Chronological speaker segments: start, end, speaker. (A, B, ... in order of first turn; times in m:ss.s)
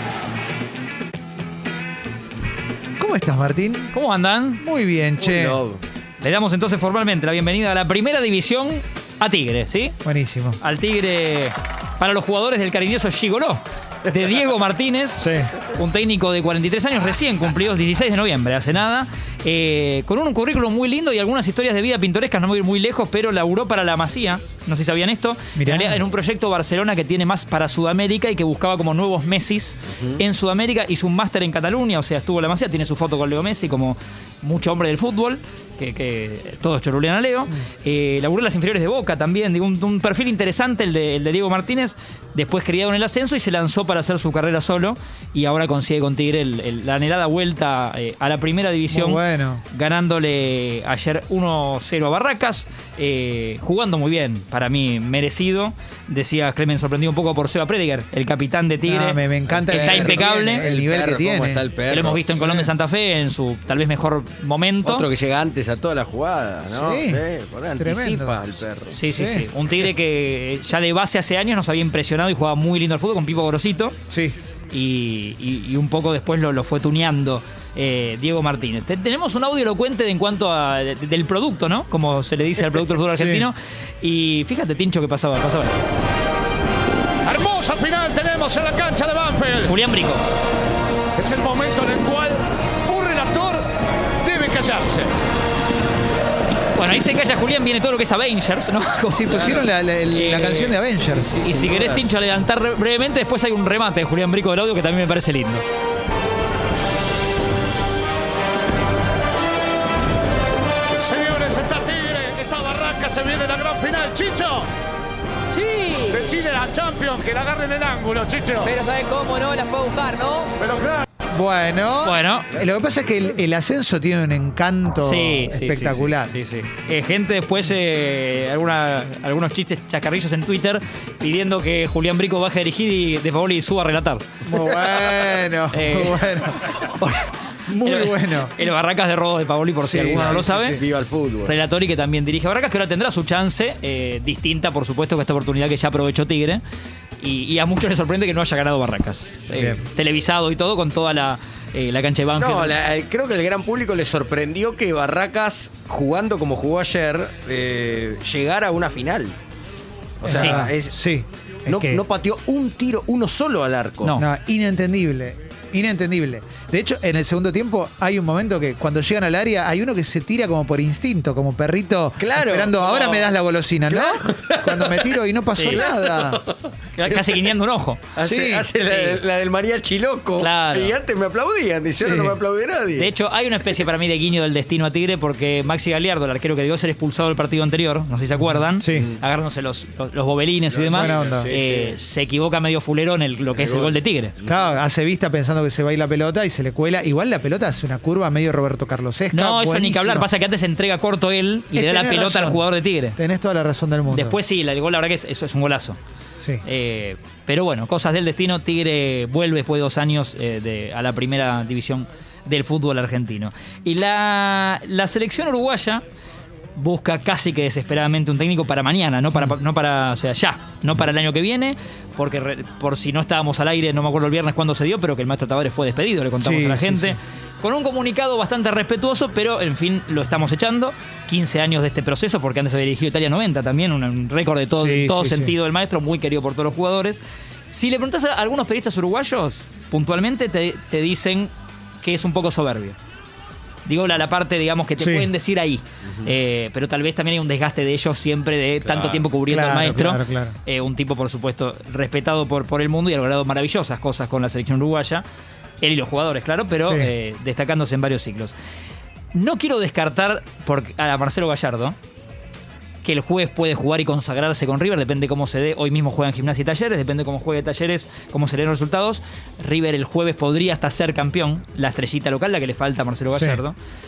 0:03.0-0:03.9 A
0:03.9-0:04.6 B
0:04.6-0:05.6 A
0:05.2-0:05.8 C
0:06.2-0:10.0 B
0:10.0-0:10.6 A
0:10.6-1:00.7 B
0:15.2-0:15.5 A
0:25.5-0:26.0 A
0:48.9-0:49.6 A
0:58.8-1:01.6 A
0:59.5-1:02.3 C
1:01.9-1:05.1 B
1:02.3-1:02.7 A
1:04.8-1:09.0 C
1:06.7-1:07.2 A
1:07.8-1:08.4 A
1:08.9-1:14.0 B
1:09.0-1:09.5 A
1:14.1-1:14.3 A
1:14.7-1:25.8 B
1:23.1-1:23.5 A
1:27.2-1:29.6 D
1:29.6-1:30.2 B
1:31.2-1:33.7 D
1:34.2-1:35.1 D
1:36.7-1:40.8 B
1:39.1-1:41.4 A
1:41.0-1:42.0 C
1:41.4-1:45.6 B
1:51.0-1:54.7 D
1:55.6-1:56.0 E
1:56.0-1:58.8 D
1:58.8-2:00.5 E
2:00.6-2:01.0 D
2:01.3-2:06.4 A
2:02.0-2:02.5 B
2:05.0-2:14.2 B
2:14.4-2:18.5 A
2:15.7-2:16.4 B
2:17.8-2:20.8 B
2:19.8-2:20.8 A
2:19.8-2:21.5 C
2:21.4-2:26.6 B
2:27.2-2:32.8 B
2:29.5-2:29.8 A
2:32.4-2:39.3 C
2:40.2-2:41.0 C
2:40.2-2:42.0 A
2:40.2-2:40.6 B
2:41.6-2:44.2 C
2:44.1-2:56.4 A
2:52.2-2:53.3 C
2:53.9-2:55.1 C
2:55.5-2:55.8 B
2:55.8-2:57.5 C
2:57.0-2:58.0 B
2:58.2-3:03.1 C
2:58.2-2:58.7 A
2:58.8-2:59.2 B
3:00.4-3:01.0 B
3:02.0-3:02.4 A
3:02.9-3:14.3 B
3:08.8-3:09.1 A
3:10.7-3:11.9 C
3:10.9-3:11.5 A
3:13.5-3:14.5 C
3:14.4-3:20.3 A
3:19.3-3:23.2 B
3:21.7-3:22.6 A
3:23.2-3:24.4 A
3:24.1-3:26.0 B
3:26.6-3:36.0 B
3:36.8-4:03.0 B
3:46.4-3:47.2 A
3:54.7-3:55.5 A
4:03.8-4:15.2 B
4:05.0-4:05.3 A
4:08.8-4:09.2 C
4:09.4-4:10.6 A
4:15.8-4:18.5 B
4:19.3-4:22.0 B
4:23.0-4:33.8 B
4:33.3-4:33.6 A